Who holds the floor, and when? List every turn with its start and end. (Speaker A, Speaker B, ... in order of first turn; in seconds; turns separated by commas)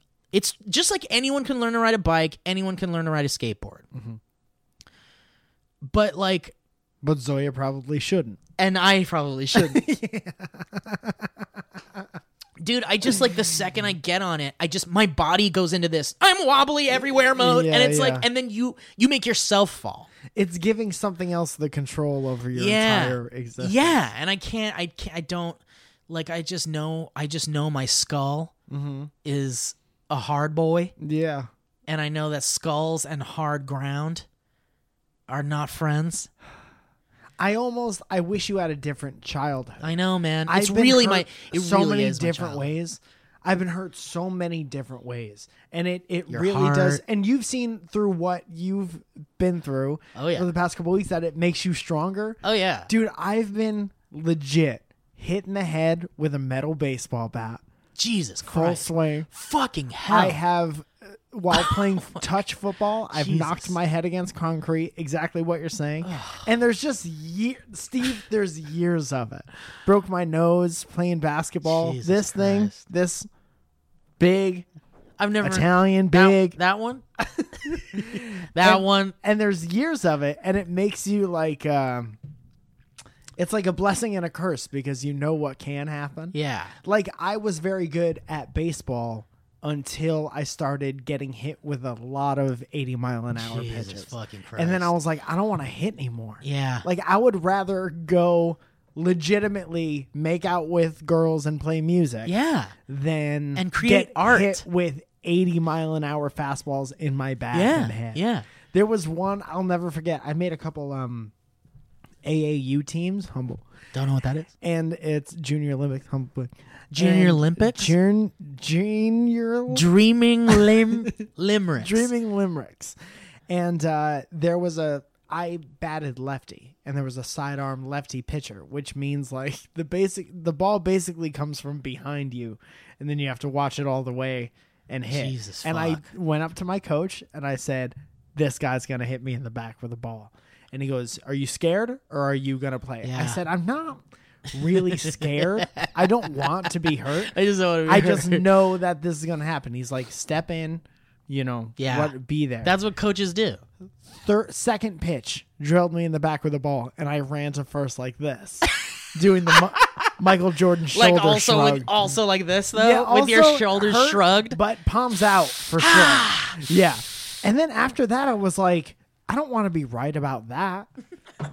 Speaker A: 0.3-3.9, Speaker B: 3.9-4.2, Speaker A: 5.8-6.5, Speaker B: 7.0-8.4, Speaker A: 8.6-9.8, Speaker B: 9.5-12.1, Speaker A: 12.6-20.1, Speaker B: 17.2-18.2, Speaker B: 20.3-24.0, Speaker A: 22.5-28.5, Speaker B: 28.7-29.1, Speaker A: 29.2-30.9, Speaker B: 31.0-31.5, Speaker A: 31.9-34.2, Speaker A: 35.3-36.3, Speaker B: 37.4-39.9, Speaker A: 39.8-42.7, Speaker B: 40.5-57.6, Speaker A: 46.3-47.0, Speaker A: 50.1-50.5, Speaker A: 52.4-52.9, Speaker A: 58.0-60.4, Speaker B: 58.4-59.3, Speaker B: 60.1-73.3, Speaker A: 61.5-62.3, Speaker A: 63.1-63.8, Speaker A: 66.0-66.5, Speaker A: 71.6-72.8, Speaker B: 74.2-74.7, Speaker A: 75.2-77.0, Speaker B: 75.4-76.6, Speaker B: 77.2-82.2, Speaker A: 77.9-79.1, Speaker B: 83.4-102.3, Speaker A: 86.3-86.7, Speaker A: 93.3-94.9, Speaker A: 96.4-96.8, Speaker A: 102.2-102.7, Speaker B: 102.9-111.3, Speaker A: 103.5-104.6, Speaker A: 107.5-108.5, Speaker B: 112.2-113.6, Speaker A: 113.9-114.5, Speaker B: 114.6-119.9, Speaker A: 116.9-117.9, Speaker A: 119.7-122.1, Speaker B: 120.5-121.1, Speaker B: 121.8-123.0, Speaker B: 123.5-152.7, Speaker A: 135.1-136.1, Speaker A: 143.0-143.4, Speaker A: 144.9-146.0, Speaker A: 147.2-148.5, Speaker A: 151.8-153.6, Speaker B: 154.1-162.1, Speaker A: 159.5-160.1, Speaker A: 160.9-164.6, Speaker B: 162.7-170.9, Speaker A: 165.8-166.6